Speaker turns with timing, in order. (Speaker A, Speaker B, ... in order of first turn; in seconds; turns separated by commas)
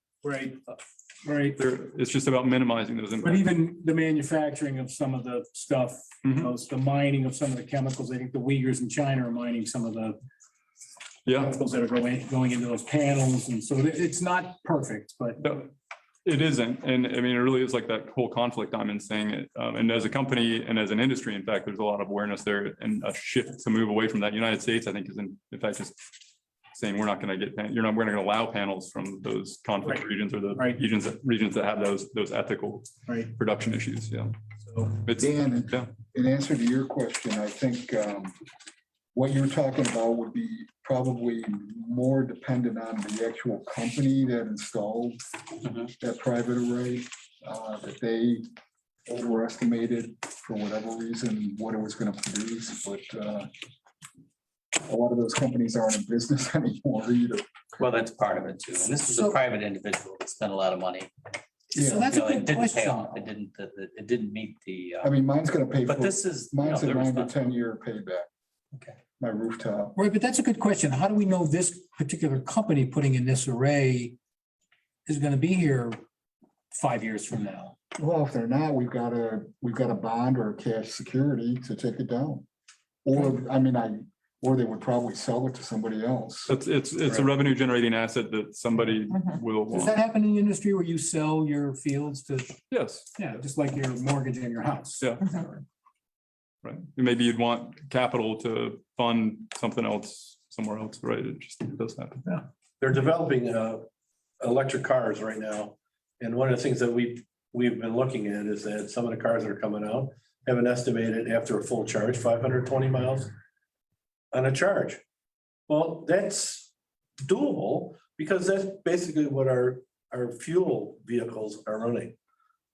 Speaker A: 0.2-1.6, Speaker B: 1.6-3.4, Speaker A: 3.2-10.2, Speaker B: 6.2-6.5, Speaker B: 11.2-11.6, Speaker A: 11.5-15.4, Speaker B: 15.4-15.7, Speaker B: 16.2-25.9, Speaker B: 26.7-34.4, Speaker A: 29.8-30.8, Speaker A: 33.1-33.3, Speaker B: 34.9-35.9, Speaker C: 35.2-38.3, Speaker C: 39.1-45.2, Speaker C: 45.7-48.4, Speaker C: 49.1-53.5, Speaker C: 54.8-57.9, Speaker D: 57.8-61.1, Speaker A: 61.7-63.2, Speaker C: 61.8-62.1, Speaker D: 62.0-65.1, Speaker C: 65.0-68.3, Speaker D: 65.8-67.5, Speaker C: 69.2-69.9, Speaker A: 69.9-74.2, Speaker A: 75.0-76.0, Speaker A: 76.7-77.7, Speaker C: 77.9-82.5, Speaker C: 83.0-86.5, Speaker B: 86.5-90.0, Speaker A: 89.6-92.6, Speaker B: 92.7-93.1, Speaker A: 93.2-95.1, Speaker B: 95.0-95.5, Speaker B: 96.6-102.4, Speaker E: 102.8-103.8, Speaker E: 104.4-113.3, Speaker E: 114.3-115.0, Speaker E: 115.7-122.2